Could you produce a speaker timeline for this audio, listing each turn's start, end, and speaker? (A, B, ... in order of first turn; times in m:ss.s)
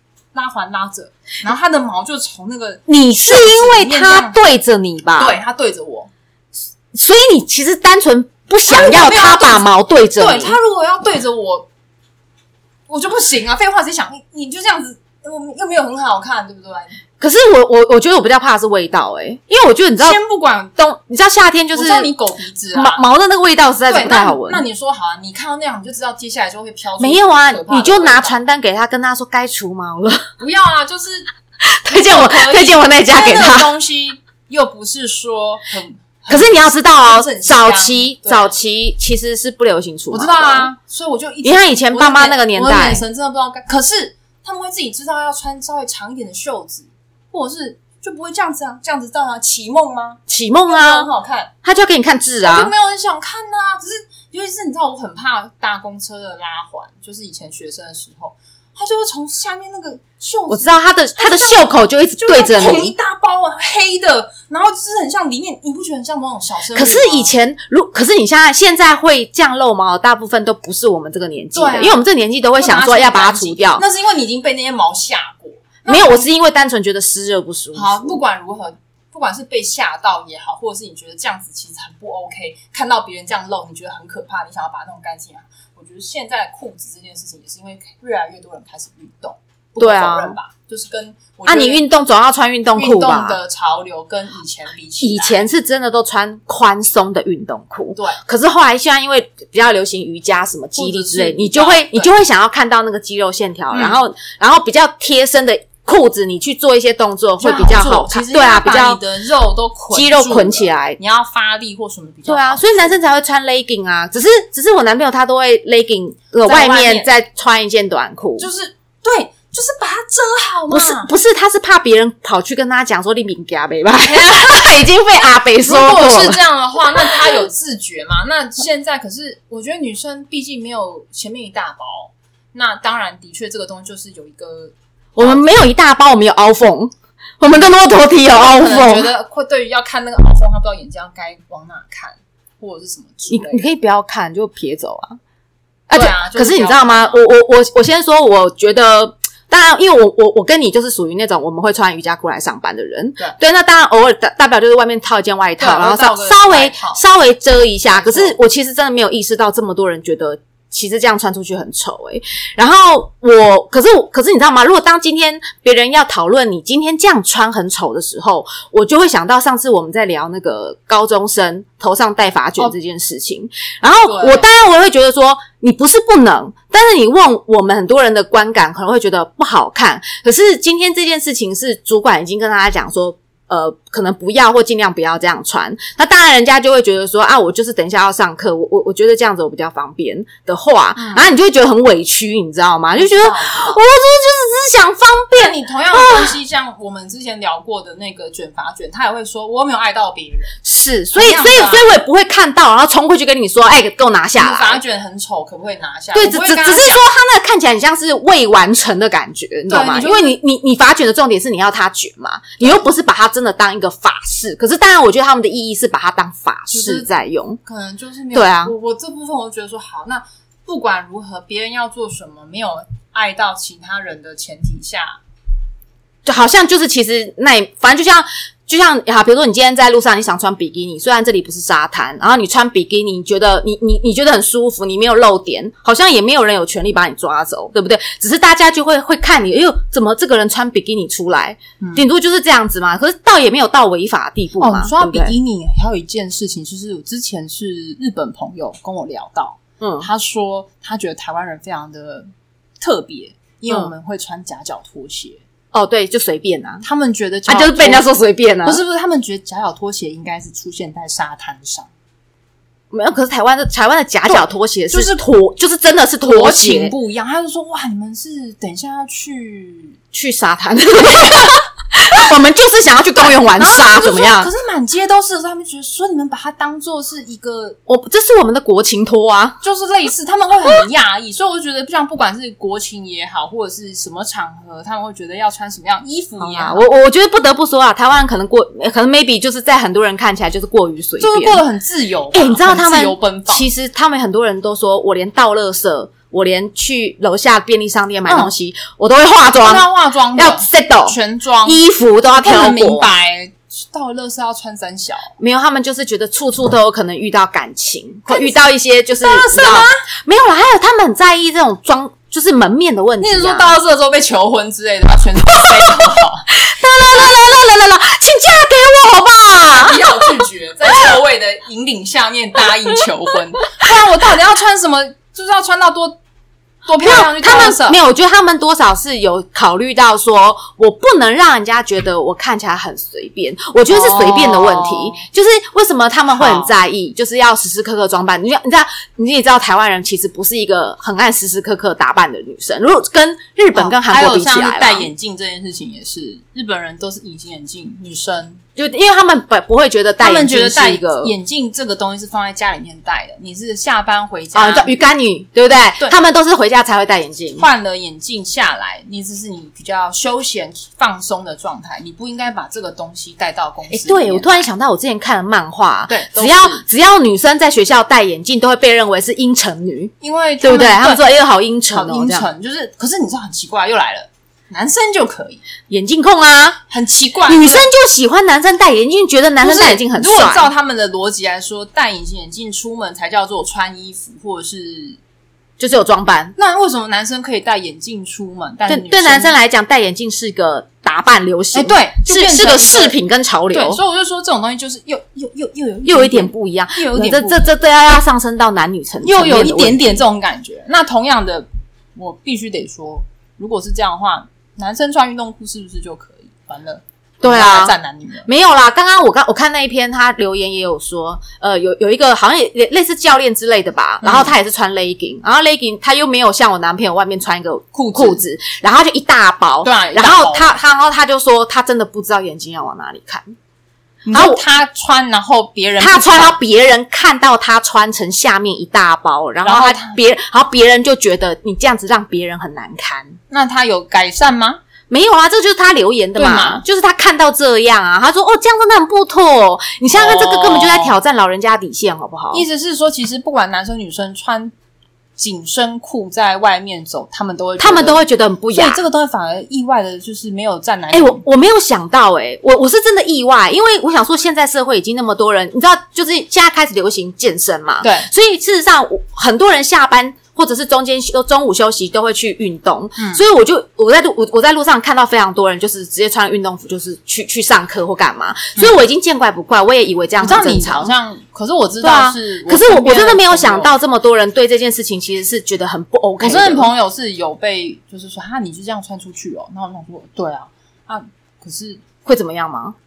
0:00.3-0:04.4 A
0:02.9-0:05.4 B
0:05.2-0:06.1 A
0:06.9-0:10.6 B
0:08.7-0:11.7 A
0:12.9-0:17.0 A
0:17.2-0:20.2 B
0:20.0-0:20.7 A
0:20.8-0:22.1 B
0:21.7-0:23.0 A
0:22.7-0:24.6 B
0:23.9-0:28.4 A
0:27.0-0:30.3 B
0:30.4-0:31.3 A
0:31.6-0:33.7 B
0:31.9-0:38.5 A
0:36.3-0:40.7 B
0:40.1-0:51.5 A
0:41.4-0:43.0 B
0:50.3-0:51.1 B
0:51.6-0:52.7 B
0:52.4-1:07.3 A
1:00.5-1:02.9 B
1:06.7-1:13.8 B
1:11.5-1:12.0 A
1:12.6-1:16.3 A
1:15.9-1:18.2 B
1:17.7-1:31.9 A
1:29.8-1:30.4 B
1:31.5-1:33.4 B
1:32.8-1:35.5 A
1:35.0-1:49.0 B
1:37.9-1:38.2 A
1:40.8-1:42.1 A
1:43.7-1:44.0 A
1:47.4-1:53.0 A
1:49.9-1:51.0 B
1:52.3-1:58.5 B
1:56.4-1:57.1 A
1:58.4-2:01.1 A
2:00.7-2:06.4 B
2:04.0-2:04.7 A
2:05.6-2:15.5 A
2:07.1-2:07.4 B
2:15.2-2:19.1 B
2:18.3-2:23.7 A
2:23.3-2:25.2 B
2:25.9-3:16.4 B
2:25.9-2:27.2 A
2:35.6-2:37.0 A
2:37.9-2:38.4 A
2:54.0-2:54.5 A
3:11.0-3:11.3 A
3:13.0-3:13.8 A
3:15.3-3:20.6 A
3:20.6-3:24.8 B
3:21.2-3:21.9 A
3:24.4-3:27.0 A
3:26.2-3:37.6 B
3:29.7-3:30.4 A
3:36.7-3:37.1 A
3:37.6-3:45.2 A
3:38.3-3:38.7 B
3:46.2-4:05.4 B
4:01.8-4:02.1 A
4:04.6-4:12.3 A
4:09.8-4:10.1 B
4:12.8-4:15.4 A
4:15.7-4:16.8 B
4:16.8-4:18.1 A
4:17.5-4:18.8 B
4:18.6-4:21.9 A
4:22.9-4:26.9 B
4:24.3-4:25.3 A
4:26.2-4:30.0 A
4:30.1-4:34.5 B
4:33.2-4:37.8 A
4:37.9-4:39.6 B
4:39.6-4:46.8 A
4:46.4-4:51.6 B
4:51.2-4:53.7 A
4:52.3-5:03.1 B
4:58.3-4:58.5 A
4:59.6-5:05.3 A
5:05.4-5:13.8 B
5:08.3-5:08.7 A
5:09.2-5:10.0 A
5:13.2-5:16.5 A
5:15.5-5:20.4 B
5:19.7-5:26.2 A
5:26.9-5:28.0 A
5:27.0-5:45.1 B
5:33.9-5:35.2 A
5:36.3-5:36.7 A
5:43.8-5:48.6 A
5:48.8-5:51.3 B
5:50.2-5:55.0 A
5:54.6-5:57.7 B
5:57.6-6:04.7 A
6:03.9-6:12.5 B
6:06.1-6:06.8 A
6:10.2-6:11.3 A
6:11.9-6:15.6 A
6:15.9-6:16.8 B
6:16.9-6:17.9 A
6:17.5-6:20.7 B
6:19.6-6:25.2 A
6:25.8-6:26.6 B
6:26.6-6:29.5 A
6:28.9-6:34.0 B
6:31.7-6:33.2 A
6:33.7-6:37.7 A
6:36.1-6:40.1 B
6:39.2-6:48.5 A
6:47.4-6:48.0 B
6:48.5-7:03.5 B
6:54.2-6:54.5 A
6:57.9-6:58.4 A
6:59.8-7:00.8 A
7:04.2-7:06.6 A
7:04.3-7:04.6 B
7:06.0-7:13.4 B
7:09.6-7:10.2 A
7:13.5-7:14.8 A
7:15.1-7:22.6 B
7:16.4-7:16.8 A
7:20.1-7:21.2 A
7:22.5-7:24.7 A
7:25.4-7:31.4 A
7:27.8-7:29.0 B
7:31.1-7:51.1 B
7:38.0-7:38.3 A
7:43.2-7:43.4 A
7:50.4-7:53.9 A
7:52.0-7:56.9 B
7:56.4-8:02.0 A
8:02.2-8:03.0 B